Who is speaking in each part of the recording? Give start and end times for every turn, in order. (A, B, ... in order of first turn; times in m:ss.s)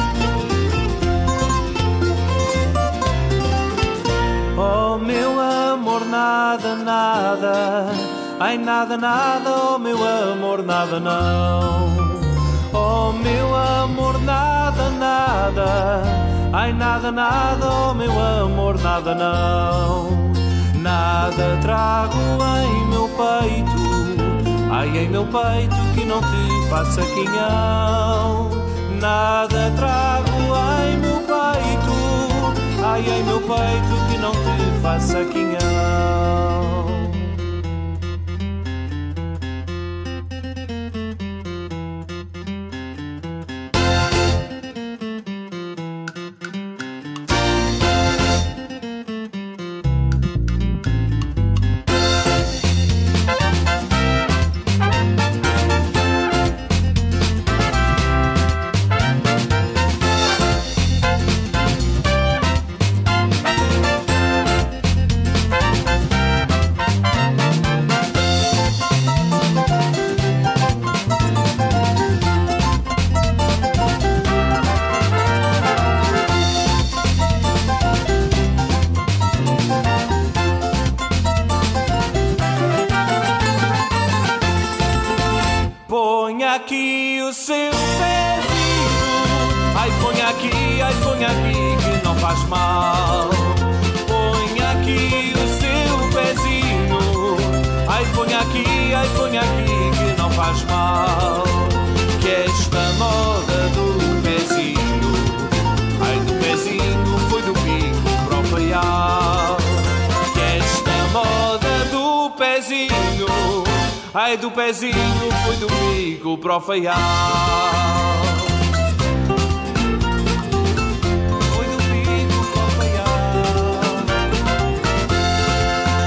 0:04.5-0:37.3 A
1:25.8-1:58.6 A
2:01.4-2:04.3 A